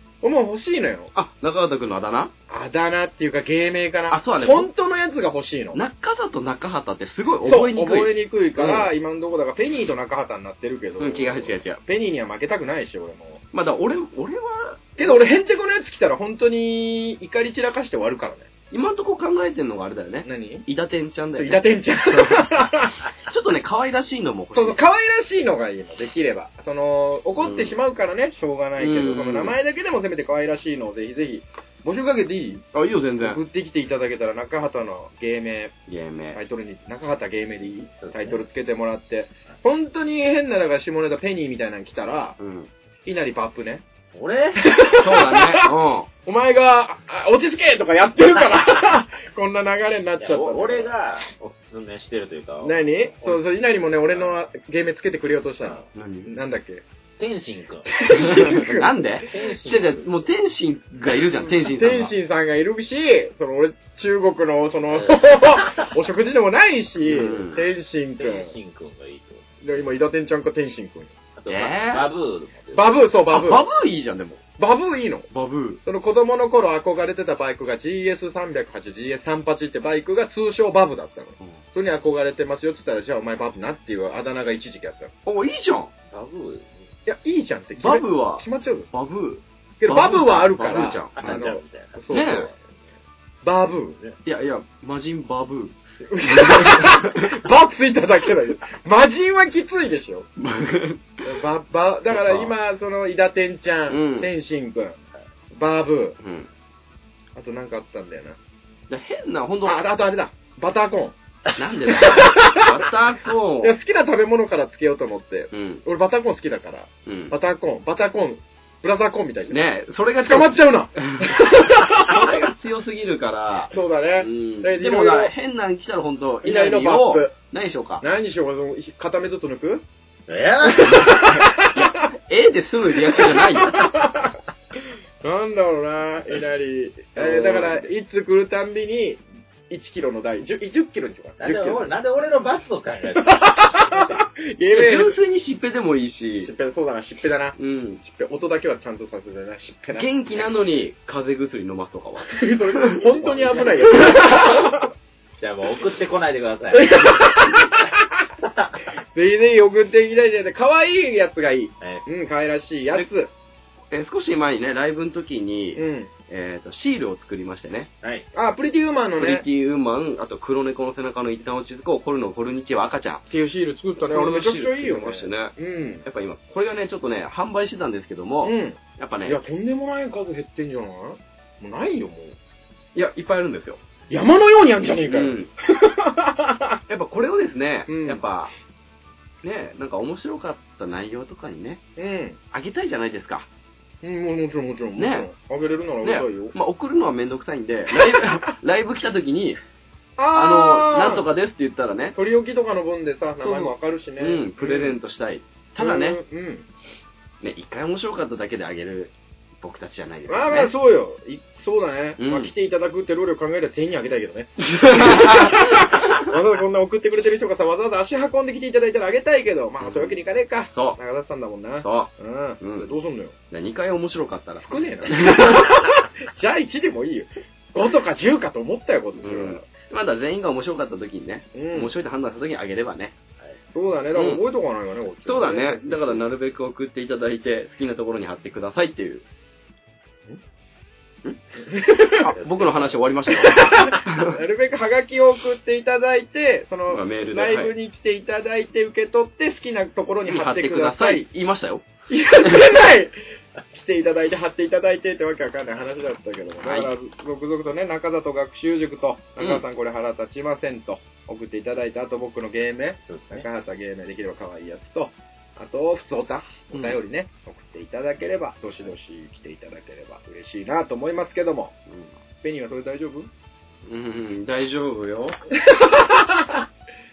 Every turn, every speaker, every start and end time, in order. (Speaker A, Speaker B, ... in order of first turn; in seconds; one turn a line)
Speaker A: 0.2-1.1
Speaker B: 1.1-2.3
Speaker A: 2.5-5.8
Speaker B: 4.1-4.7
Speaker B: 5.7-8.9
Speaker A: 7.4-13.4
Speaker B: 11.0-11.8
Speaker B: 13.5-15.2
Speaker A: 15.0-18.5
Speaker B: 18.7-24.8
Speaker A: 20.2-20.6
Speaker A: 21.3-23.1
Speaker A: 24.5-32.6
Speaker B: 27.4-27.8
Speaker B: 28.8-29.6
Speaker B: 32.7-33.4
Speaker A: 33.2-35.7
Speaker B: 35.9-36.4
Speaker A: 36.3-42.4
Speaker C: 38.0-38.4
Speaker B: 42.4-42.7
Speaker A: 43.0-43.8
Speaker C: 44.1-44.7
Speaker A: 44.6-45.7
Speaker B: 44.9-46.1
Speaker A: 46.2-50.9
Speaker C: 50.2-53.4
Speaker A: 52.6-56.8
Speaker C: 54.1-54.4
Speaker B: 55.9-56.4
Speaker C: 57.2-57.9
Speaker A: 57.9-59.3
Speaker B: 58.0-62.1
Speaker C: 59.2-60.2
Speaker A: 61.3-68.5
Speaker C: 65.4-65.9
Speaker B: 67.1-67.7
Speaker C: 68.2-69.9
Speaker A: 69.6-71.1
Speaker C: 71.4-73.1
Speaker B: 71.5-72.1
Speaker A: 72.7-73.7
Speaker B: 73.3-74.4
Speaker A: 74.6-75.3
Speaker B: 75.3-75.8
Speaker A: 75.8-85.1
Speaker B: 85.2-85.9
Speaker C: 86.1-86.9
Speaker A: 87.0-88.9
Speaker B: 87.8-91.5
Speaker A: 89.8-92.5
Speaker C: 91.1-92.8
Speaker B: 92.1-92.5
Speaker A: 93.4-94.0
Speaker B: 94.2-97.3
Speaker A: 96.0-100.3
Speaker B: 100.4-101.2
Speaker A: 101.2-105.0
Speaker B: 102.1-102.5
Speaker B: 103.9-104.3
Speaker A: 105.5-106.2
Speaker B: 106.2-106.5
Speaker A: 107.3-108.4
Speaker B: 108.9-109.8
Speaker A: 109.6-111.2
Speaker B: 111.5-113.7
Speaker A: 111.8-112.9
Speaker A: 113.6-119.6
Speaker B: 115.5-115.8
Speaker B: 117.0-117.4
Speaker B: 119.5-128.0
Speaker A: 120.2-122.5
Speaker A: 123.7-125.3
Speaker A: 126.4-127.3
Speaker A: 128.0-129.8
Speaker C: 130.3-131.4
Speaker A: 130.6-132.1
Speaker B: 130.8-133.9
Speaker A: 133.0-134.4
Speaker A: 135.2-141.9
Speaker B: 137.1-137.9
Speaker C: 141.4-144.2
Speaker A: 143.1-145.2
Speaker B: 144.7-146.5
Speaker A: 146.4-150.5
Speaker B: 147.6-148.0
Speaker B: 150.0-153.0
Speaker A: 152.3-154.9
Speaker C: 153.0-154.7
Speaker C: 155.4-157.7
Speaker A: 156.7-158.2
Speaker A: 159.1-163.3
Speaker B: 163.9-167.9
Speaker A: 165.8-166.1
Speaker C: 168.0-168.3
Speaker A: 168.3-169.4
Speaker B: 169.2-173.2
Speaker A: 173.3-176.0
Speaker B: 174.0-175.5
Speaker B: 176.0-179.4
Speaker A: 178.4-182.4
Speaker B: 182.9-183.8
Speaker A: 184.1-186.8
Speaker B: 185.1-185.5
Speaker B: 186.9-188.5
Speaker A: 187.9-188.2
Speaker B: 189.4-191.8
Speaker A: 192.0-192.4
Speaker B: 192.5-193.5
Speaker A: 194.0-196.5
Speaker B: 195.0-195.3
Speaker B: 196.0-199.6
Speaker A: 197.9-198.5
Speaker A: 200.2-201.3
Speaker B: 200.3-202.2
Speaker A: 202.1-205.0
Speaker B: 203.4-206.2
Speaker A: 205.8-206.7
Speaker B: 207.4-210.7
Speaker A: 210.3-223.3
Speaker B: 212.2-212.5
Speaker B: 214.6-216.3
Speaker B: 219.8-220.2
Speaker B: 220.7-221.0
Speaker B: 221.8-222.9
Speaker B: 223.5-225.8
Speaker A: 224.6-229.6
Speaker B: 229.2-233.1
Speaker A: 231.5-231.9
Speaker A: 233.7-236.2
Speaker B: 234.1-234.4
Speaker B: 235.2-239.2
Speaker A: 241.6-242.3
Speaker B: 242.1-244.4
Speaker C: 242.4-242.9
Speaker A: 243.3-251.3
Speaker B: 246.9-247.7
Speaker B: 250.2-251.8
Speaker A: 252.1-253.2
Speaker A: 253.7-271.8
Speaker B: 256.6-256.9
Speaker B: 259.4-259.6
Speaker C: 263.0-263.4
Speaker B: 266.7-267.0
Speaker A: 272.4-273.3
Speaker B: 273.8-275.4
Speaker A: 275.6-276.6